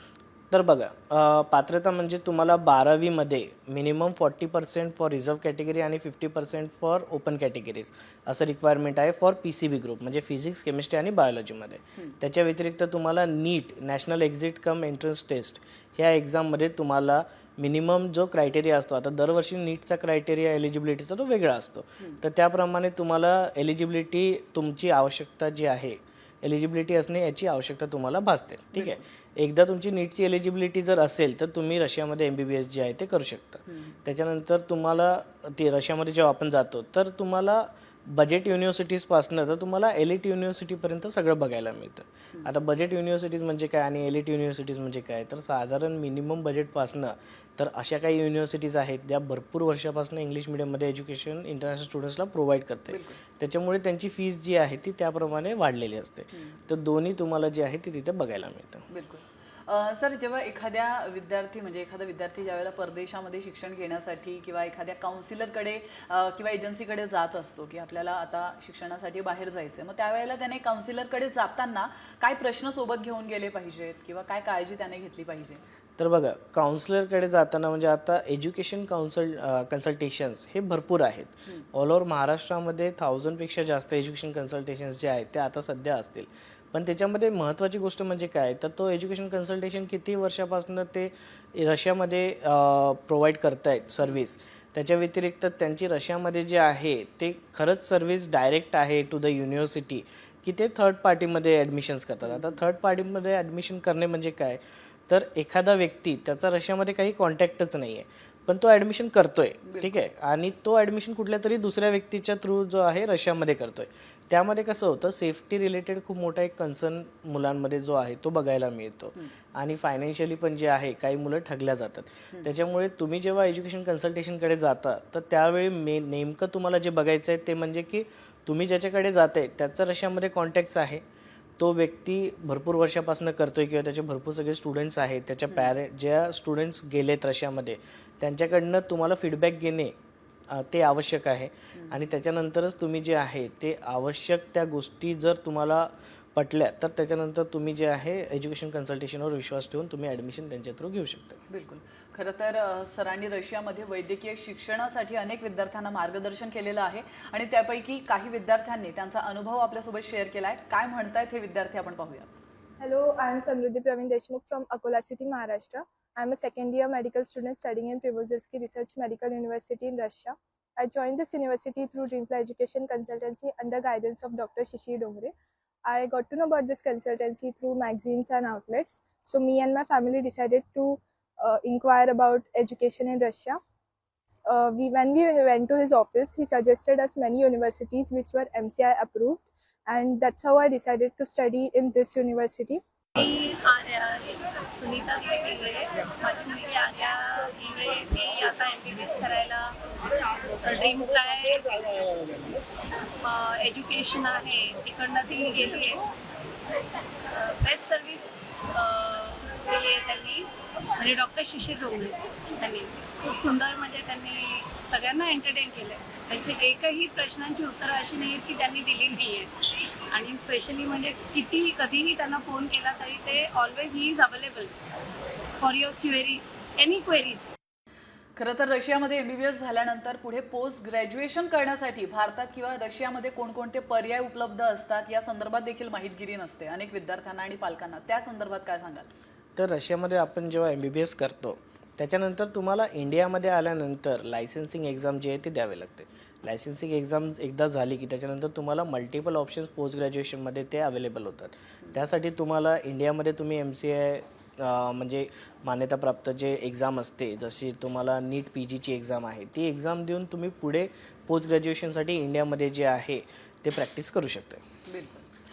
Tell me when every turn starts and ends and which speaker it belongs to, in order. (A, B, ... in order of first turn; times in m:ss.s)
0:00.5-0:58.8 A
0:28.7-0:29.0 B
0:33.7-0:34.0 B
0:52.9-0:53.2 B
0:58.9-1:15.6 B
1:16.0-2:11.0 A
1:42.2-1:42.6 B
1:49.6-1:50.0 B
2:11.6-2:19.9 A
2:20.5-2:31.4 A
2:31.5-2:42.3 B
2:42.8-2:55.3 C
2:55.8-3:03.6 C
3:04.3-3:12.8 C
3:13.2-3:19.8 D
3:20.6-3:22.0 D
3:23.2-3:26.0 D
3:27.3-3:39.5 D
3:40.1-3:44.7 D
3:45.6-3:47.5 D
3:48.4-3:59.1 B
3:59.6-4:24.6 A
4:24.9-4:25.3 B